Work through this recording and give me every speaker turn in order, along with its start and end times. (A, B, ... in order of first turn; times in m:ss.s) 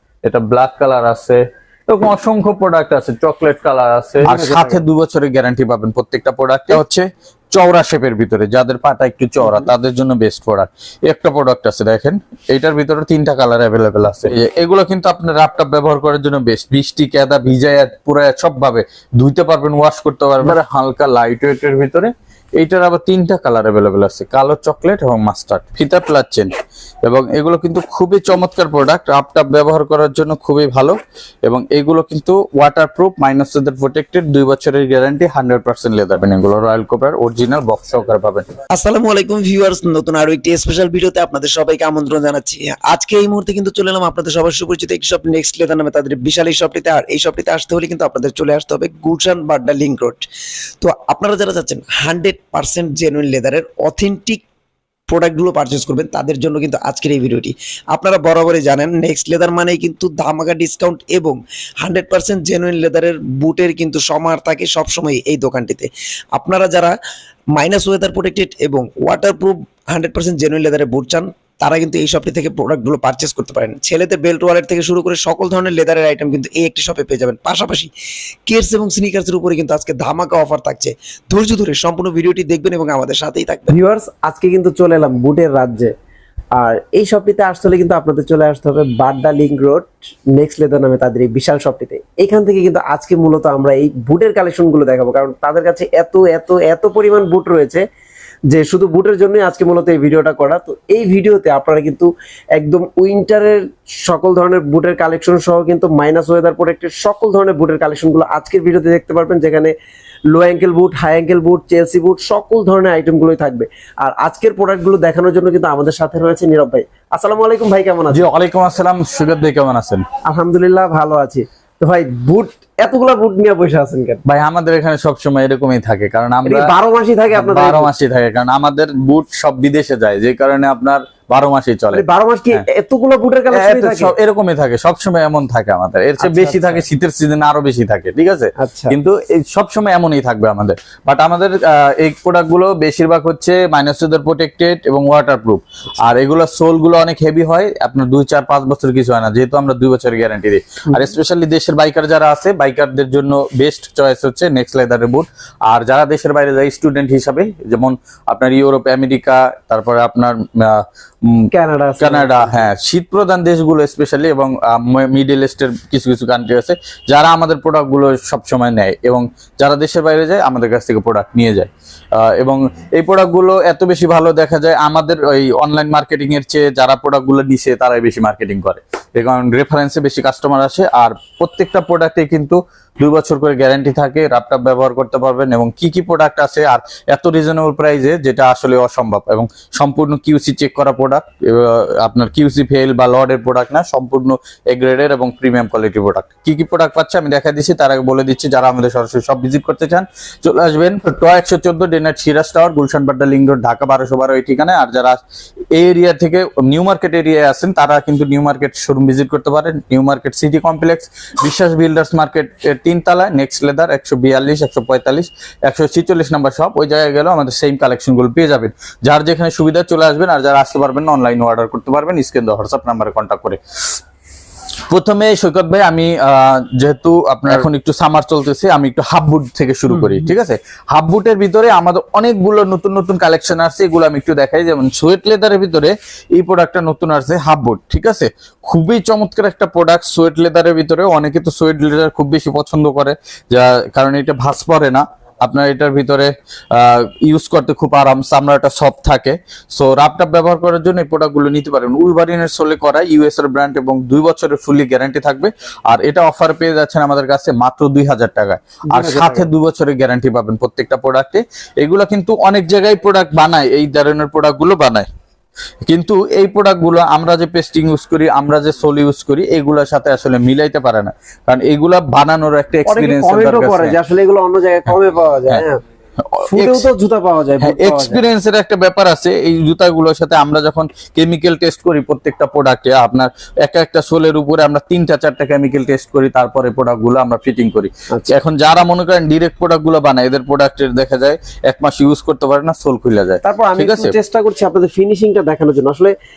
0:00.2-0:26.5 A
0:04.2-0:04.8 B
0:27.0-0:38.5 A
0:38.7-0:50.3 C
0:50.8-0:54.4 C
0:55.1-1:07.0 C
1:07.6-1:17.9 C
1:18.5-1:23.7 C
1:23.7-1:25.9 B
1:26.6-1:37.8 B
1:38.5-1:49.7 B
1:50.3-1:58.3 B
1:58.1-2:00.1 A
2:00.2-2:04.2 B
2:04.2-2:06.7 A
2:06.4-2:07.9 B
2:07.3-2:12.6 A
2:11.9-2:14.1 B
2:13.5-3:25.2 A
2:16.2-2:16.8 B
2:18.6-2:19.0 B
2:41.5-2:42.7 B
3:25.7-3:44.0 A
3:44.9-4:25.1 A
4:18.9-4:19.5 B
4:25.8-4:34.0 A
4:32.9-4:35.8 B
4:36.2-4:36.9 A
4:36.5-4:38.2 B
4:37.6-4:54.2 A
4:53.4-4:56.2 B